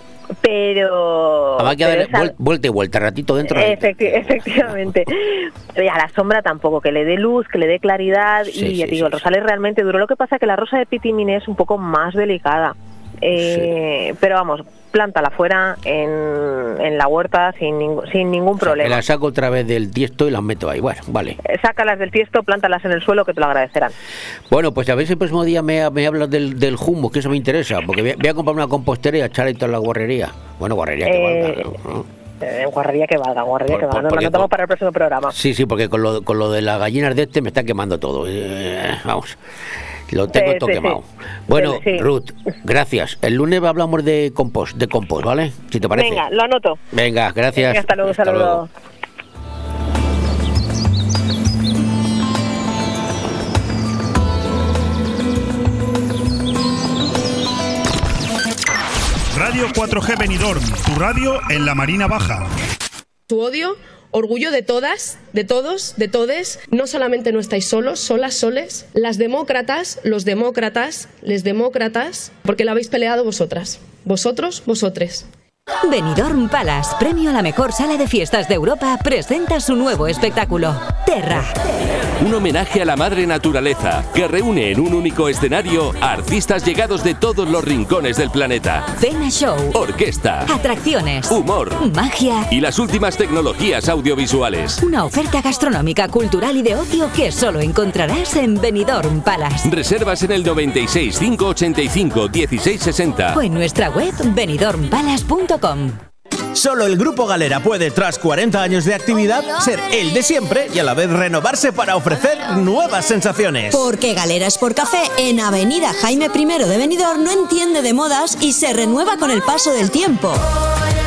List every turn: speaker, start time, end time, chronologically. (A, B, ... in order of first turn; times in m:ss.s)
0:00.4-0:02.3 A
0:01.6-0:04.7 B
0:03.5-0:19.0 A
0:08.5-0:09.3 B
0:13.3-0:13.7 B
0:18.6-0:21.4 B
0:21.4-0:23.9 A
0:24.5-0:32.1 B
0:31.1-0:31.7 A
0:32.4-0:35.3 A
0:33.7-0:34.5 B
0:35.3-0:39.4 B
0:40.1-0:46.3 B
0:40.3-0:41.0 A
0:41.5-0:42.1 A
0:45.9-0:46.8 A
0:46.9-0:48.6 B
0:47.6-0:48.7 A
0:59.3-1:02.5 C
1:03.3-1:15.3 D
1:16.0-1:21.4 E
1:22.2-1:28.9 F
1:29.0-1:29.6 E
1:29.7-1:30.5 F
1:30.6-1:31.2 E
1:31.3-1:31.8 F
1:31.9-1:32.4 E
1:32.5-1:34.7 F
1:34.9-1:39.6 E
1:39.6-1:43.4 F
1:43.4-1:45.9 E
1:45.1-1:45.4 G
1:46.6-1:53.9 H
1:53.7-2:00.5 G